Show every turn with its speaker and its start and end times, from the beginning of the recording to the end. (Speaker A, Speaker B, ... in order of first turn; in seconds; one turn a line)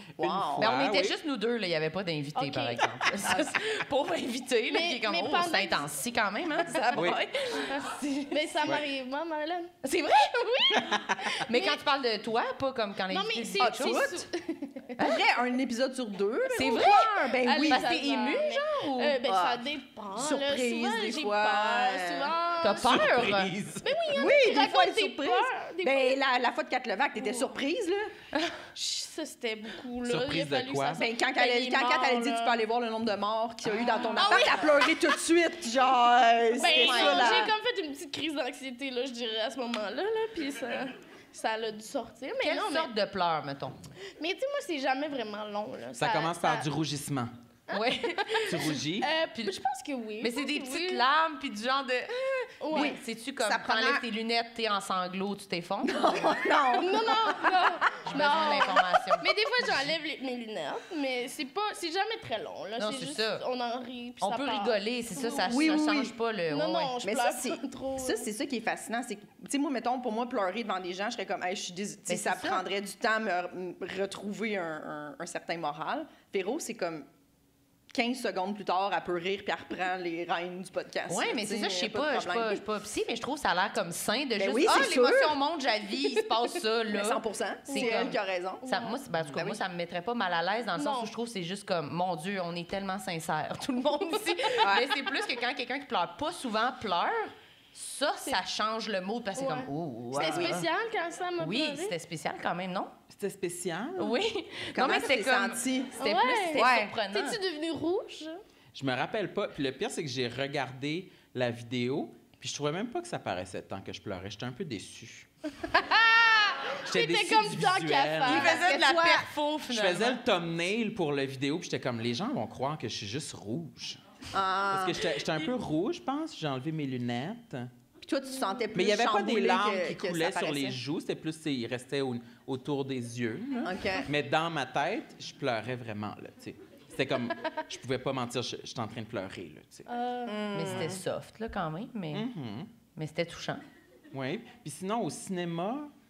Speaker A: 0.2-1.2
Speaker B: 0.2-0.7
Speaker C: 0.6-8.7
Speaker D: 2.4-3.1
Speaker B: 3.2-3.5
Speaker D: 4.7-5.9
Speaker A: 7.0-7.2
Speaker D: 7.8-9.8
Speaker C: 9.8-14.2
Speaker D: 10.4-11.8
Speaker A: 10.8-11.3
Speaker D: 13.1-14.9
Speaker B: 13.6-14.2
Speaker B: 15.0-18.0
Speaker C: 16.5-19.2
Speaker D: 16.6-23.1
Speaker B: 19.2-22.3
Speaker C: 22.6-23.5
Speaker A: 22.8-24.0
Speaker D: 23.8-26.2
Speaker B: 24.1-28.1
Speaker D: 27.2-27.5
Speaker D: 28.7-32.6
Speaker A: 30.0-31.0
Speaker B: 31.0-37.5
Speaker D: 33.9-34.9
Speaker C: 34.2-34.6
Speaker D: 36.6-42.9
Speaker C: 36.6-37.5
Speaker C: 42.4-43.8
Speaker D: 44.2-46.6
Speaker A: 46.0-47.3
Speaker D: 47.7-51.0
Speaker C: 47.7-48.7
Speaker A: 48.5-49.1
Speaker C: 50.2-56.4
Speaker D: 52.6-53.0
Speaker B: 52.7-54.0
Speaker B: 55.8-57.8
Speaker D: 56.7-65.9
Speaker C: 58.0-59.3
Speaker C: 62.8-63.4
Speaker C: 64.2-67.0
Speaker B: 65.5-66.2
Speaker D: 66.5-68.3
Speaker B: 67.0-77.1
Speaker C: 72.1-72.6
Speaker B: 77.9-82.6
Speaker C: 81.1-100.7
Speaker B: 84.4-85.4
Speaker B: 86.9-88.6
Speaker D: 87.7-89.0
Speaker B: 89.3-89.6
Speaker D: 90.8-91.1
Speaker B: 94.6-94.9
Speaker D: 99.3-101.9
Speaker B: 100.1-100.6
Speaker C: 101.4-102.9
Speaker A: 103.1-104.2
Speaker C: 104.0-107.4
Speaker B: 104.7-106.0
Speaker D: 106.0-108.4
Speaker B: 106.5-106.9
Speaker A: 108.7-115.3
Speaker D: 115.6-118.6
Speaker A: 116.9-118.6
Speaker C: 118.2-120.2
Speaker B: 118.3-119.3
Speaker A: 119.7-124.0
Speaker B: 124.3-125.2
Speaker A: 124.7-127.7
Speaker B: 128.0-130.8
Speaker A: 128.7-139.9
Speaker B: 133.6-134.1
Speaker D: 139.8-140.5
Speaker B: 140.2-141.0
Speaker C: 140.5-142.3
Speaker A: 140.7-141.0
Speaker A: 142.1-142.7
Speaker C: 142.9-143.6
Speaker A: 144.1-145.9